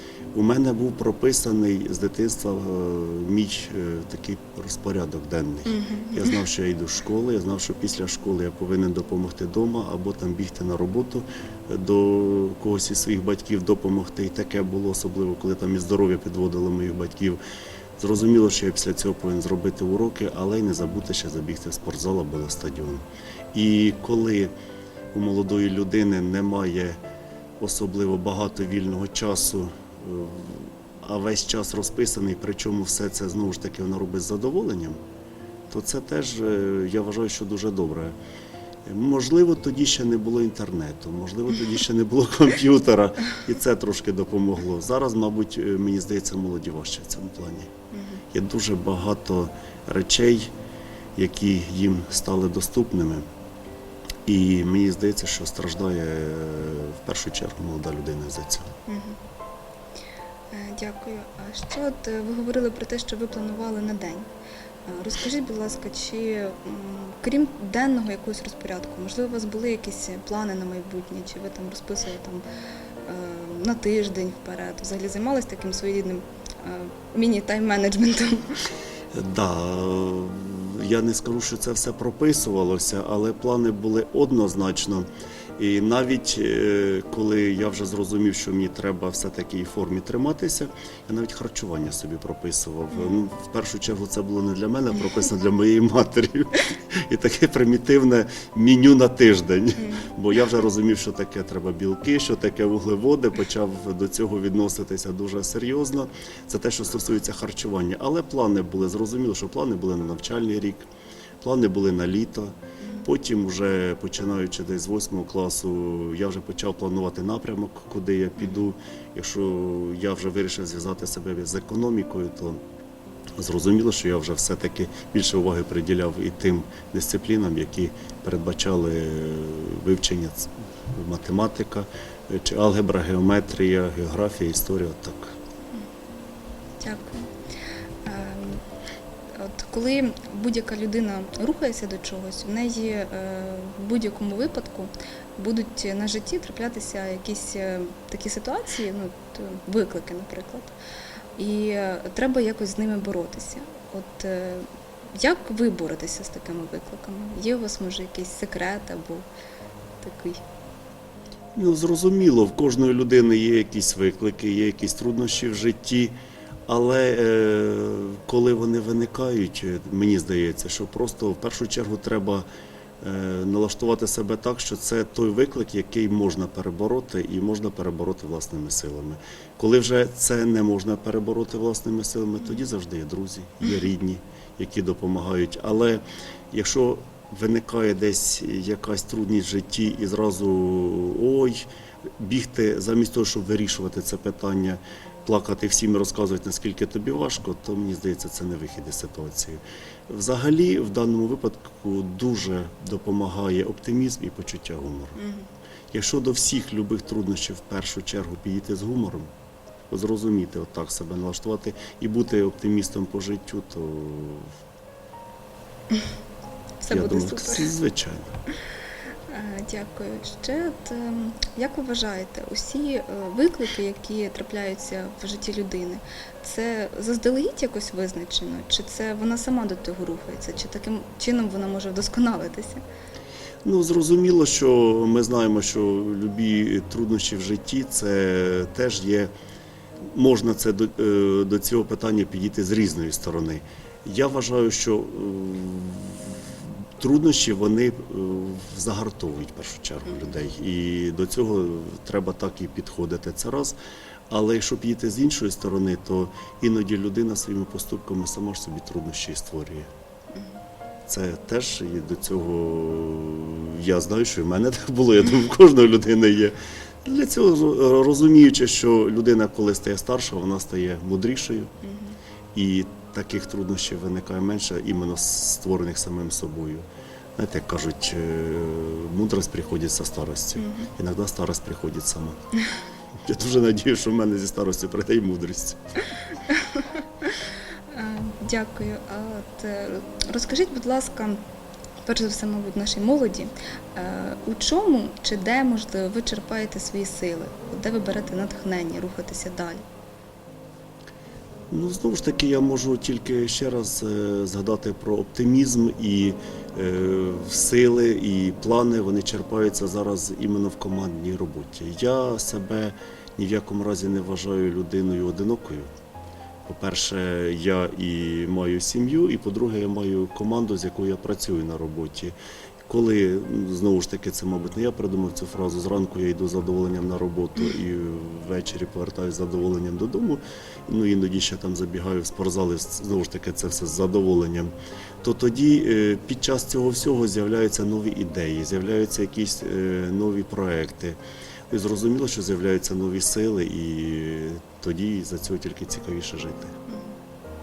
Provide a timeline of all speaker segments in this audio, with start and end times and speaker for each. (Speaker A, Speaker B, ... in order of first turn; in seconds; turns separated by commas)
Speaker A: 0.3-17.4, Speaker B: 5.7-6.4, Speaker A: 18.0-24.5, Speaker A: 25.1-27.0, Speaker A: 27.6-35.0, Speaker A: 35.7-38.2, Speaker A: 38.9-47.7, Speaker B: 47.9-48.2, Speaker A: 48.3-50.5, Speaker A: 51.1-53.2, Speaker A: 54.2-58.7, Speaker B: 58.9-59.2, Speaker B: 60.5-64.3, Speaker B: 64.8-72.4, Speaker B: 73.0-78.6, Speaker A: 79.1-110.8, Speaker B: 92.9-93.2, Speaker B: 99.8-100.1, Speaker A: 111.4-122.6, Speaker B: 112.8-113.1, Speaker B: 118.4-118.6, Speaker A: 123.4-135.3, Speaker B: 136.8-137.3, Speaker B: 138.0-138.6, Speaker B: 139.3-150.8, Speaker B: 151.4-159.3, Speaker B: 160.0-160.4, Speaker A: 161.6-166.1, Speaker A: 166.7-172.5, Speaker A: 173.0-205.2, Speaker B: 205.2-205.5, Speaker A: 205.9-209.3, Speaker A: 209.9-214.5, Speaker B: 216.8-217.7, Speaker A: 216.9-218.3, Speaker B: 219.3-232.8, Speaker A: 233.6-239.3, Speaker A: 240.0-253.8, Speaker A: 254.3-259.9, Speaker A: 261.1-271.7, Speaker B: 271.8-272.2, Speaker A: 272.5-282.4, Speaker B: 280.6-280.9, Speaker A: 283.2-285.8, Speaker B: 286.5-286.9, Speaker B: 287.9-291.4, Speaker B: 292.0-299.8, Speaker A: 301.7-315.9, Speaker A: 316.6-322.3, Speaker A: 322.9-341.2, Speaker A: 341.7-346.8, Speaker B: 346.9-347.1